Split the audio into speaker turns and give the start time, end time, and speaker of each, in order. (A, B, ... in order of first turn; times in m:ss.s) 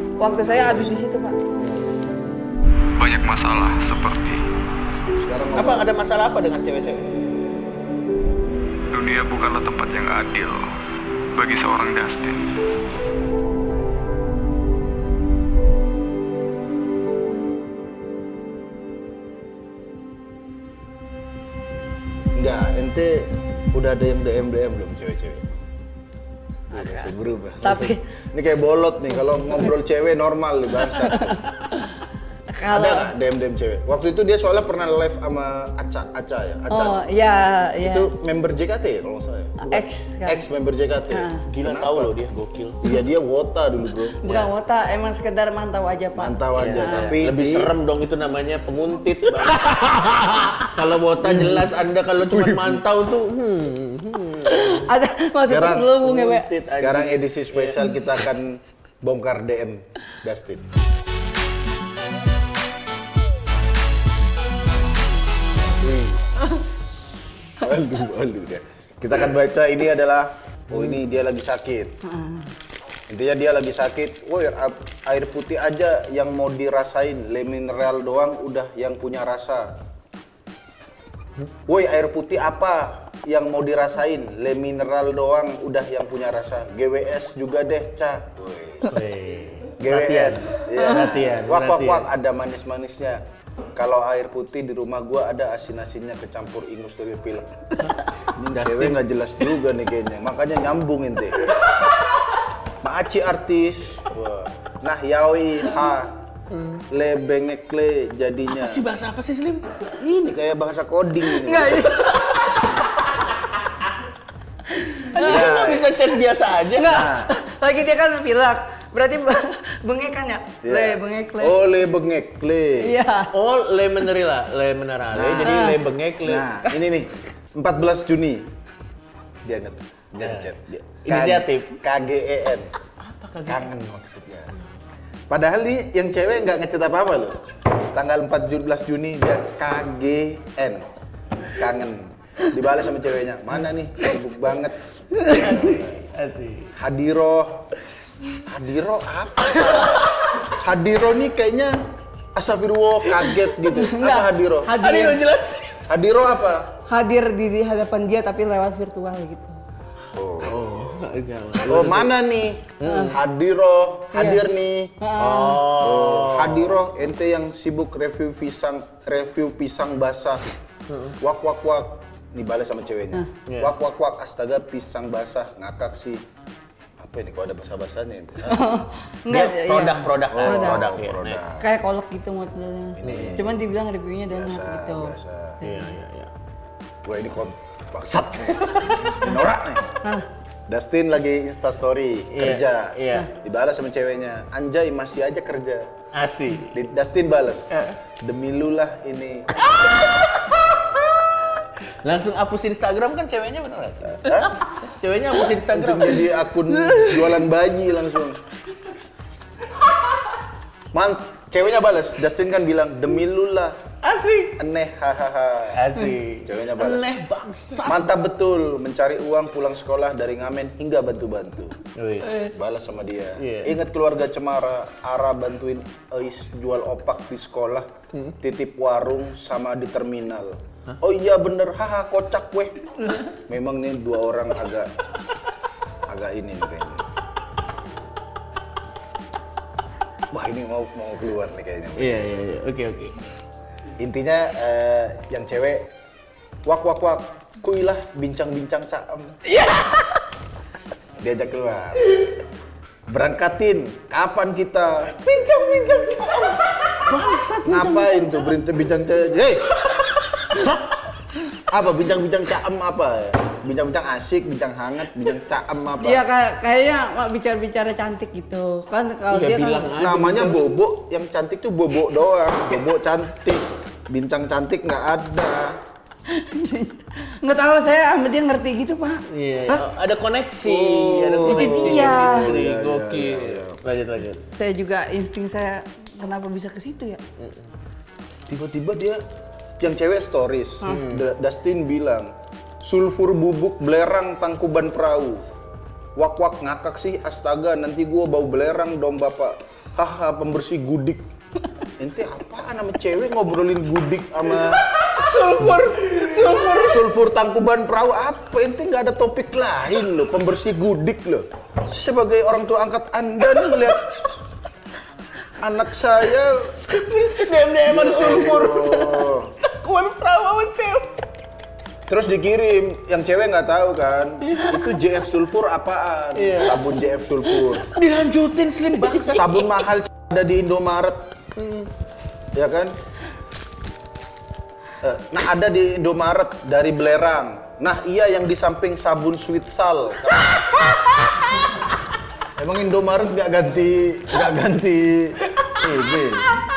0:00.2-0:01.4 A
0:00.2-0:01.0 B
0:01.6-0:01.9 B
0:03.0-0:04.4 C
0:05.2-0:05.9 B
0:05.5-0:07.1 D
0:08.9-0:10.7 C
0:11.4-0:12.5 C
0:22.3-0:25.6 B
0:26.7-0:28.0 A
0:26.7-0:31.4 B
0:30.8-0:32.0 A
0:32.5-0:33.1 A
0:32.7-0:37.1 B
0:36.7-0:38.1 A
0:37.8-0:42.2 B
0:39.6-0:40.5 A
0:41.1-0:41.4 A
0:41.5-0:42.9 D
0:42.8-0:44.2 B
0:44.2-0:47.2 A
0:44.2-0:44.5 D
0:46.2-0:47.7 B
0:46.6-0:50.0 D
0:49.4-0:50.6 B
0:50.6-0:54.9 D
0:51.2-0:51.7 B
0:52.2-0:52.8 B
0:54.4-0:56.5 A
0:55.5-0:56.0 B
0:56.0-0:58.1 D
0:56.7-1:00.6 B
1:05.8-1:06.5 B
1:07.6-1:12.0 B
1:10.7-1:11.0 D
1:12.0-1:12.5 A
1:13.1-1:19.7 B
1:21.7-1:29.0 B
1:28.9-1:32.1 D
1:29.8-1:33.2 B
1:30.8-1:31.1 A
1:33.8-1:37.6 B
1:38.4-1:41.5 B
1:38.5-1:39.0 D
1:42.8-1:46.2 B
1:46.5-1:46.8 D
1:46.9-1:48.8 B
1:48.5-1:49.8 D
1:50.0-1:52.1 B
1:51.3-1:52.6 A
1:54.8-1:55.6 A
1:55.1-1:57.1 D
1:55.2-1:56.0 B
1:56.8-2:01.6 A
1:56.8-1:57.3 B
2:00.6-2:03.0 B
2:02.8-2:03.3 A
2:03.3-2:06.5 D
2:05.1-2:05.7 B
2:05.4-2:05.8 A
2:06.2-2:08.5 B
2:09.4-2:12.7 B
2:10.2-2:11.8 D
2:13.0-2:13.7 D
2:13.5-2:14.6 B
2:15.3-2:20.9 B
2:21.5-2:24.8 B
2:25.2-2:25.4 A
2:25.2-2:26.7 D
2:26.8-2:27.7 B
2:28.4-2:31.8 B
2:29.7-2:30.3 D
2:32.4-2:34.8 B
2:33.1-2:33.7 D
2:33.7-2:35.2 A
2:34.8-2:35.8 D
2:35.9-2:36.7 B
2:36.9-2:39.6 A
2:40.1-2:41.0 B
2:40.4-2:42.2 D
2:41.6-2:45.0 B
2:42.8-2:43.2 D
2:42.8-2:43.2 A
2:44.1-2:44.4 A
2:45.0-2:45.7 A
2:45.2-2:46.8 D
2:45.8-2:50.4 B
2:50.9-2:51.2 D
2:51.2-2:56.2 B
2:53.5-2:53.7 D
2:57.0-2:58.7 B
2:58.4-3:00.9 A
2:59.3-3:01.4 D
3:00.3-3:01.7 B
3:01.6-3:06.0 A
3:03.0-3:03.6 B
3:03.0-3:03.4 D
3:04.3-3:05.6 B
3:05.6-3:06.3 D
3:07.0-3:09.9 B
3:10.0-3:10.3 A
3:10.7-3:15.9 B
3:12.3-3:13.3 D
3:16.1-3:16.8 D
3:16.7-3:19.8 B
3:17.7-3:18.0 D
3:19.7-3:27.3 D
3:24.2-3:24.6 B
3:25.6-3:28.4 B
3:30.9-3:33.8 B
3:34.0-3:34.6 D
3:34.6-3:37.1 B
3:35.7-3:38.2 D
3:37.8-3:41.8 B
3:41.9-3:42.5 D
3:42.4-3:54.9 B
3:43.4-3:43.8 D
3:56.1-3:57.0 B
4:00.3-4:02.2 B
4:02.0-4:03.2 D
4:04.0-4:05.9 B
4:06.6-4:09.4 B
4:09.5-4:10.1 D
4:11.2-4:12.3 B
4:13.1-4:15.2 B
4:15.2-4:18.6 D
4:17.6-4:19.8 B
4:20.5-4:20.8 B
4:21.7-4:26.2 B
4:26.0-4:29.9 A
4:29.3-4:30.7 D
4:30.0-4:35.8 B
4:36.3-4:39.2 A
4:39.3-4:44.4 D
4:40.6-4:43.8 B
4:41.5-4:42.5 A
4:44.5-4:47.2 A
4:47.4-4:47.7 D
4:48.5-4:49.2 B
4:49.8-4:52.3 B
4:50.8-4:51.3 D
4:52.8-4:55.4 B
4:56.2-5:01.3 B
5:02.0-5:04.8 B
5:04.6-5:07.1 D
5:06.1-5:14.1 B
5:13.6-5:13.9 D
5:15.6-5:16.8 B
5:16.8-5:21.1 D
5:17.8-5:19.5 B
5:22.1-5:27.9 B
5:24.4-5:25.0 D
5:26.4-5:26.9 D
5:27.5-5:29.9 D
5:29.1-5:31.3 B
5:31.6-5:31.9 D
5:32.5-5:33.0 B
5:35.0-5:40.7 B
5:42.6-5:46.5 B
5:45.5-5:45.8 D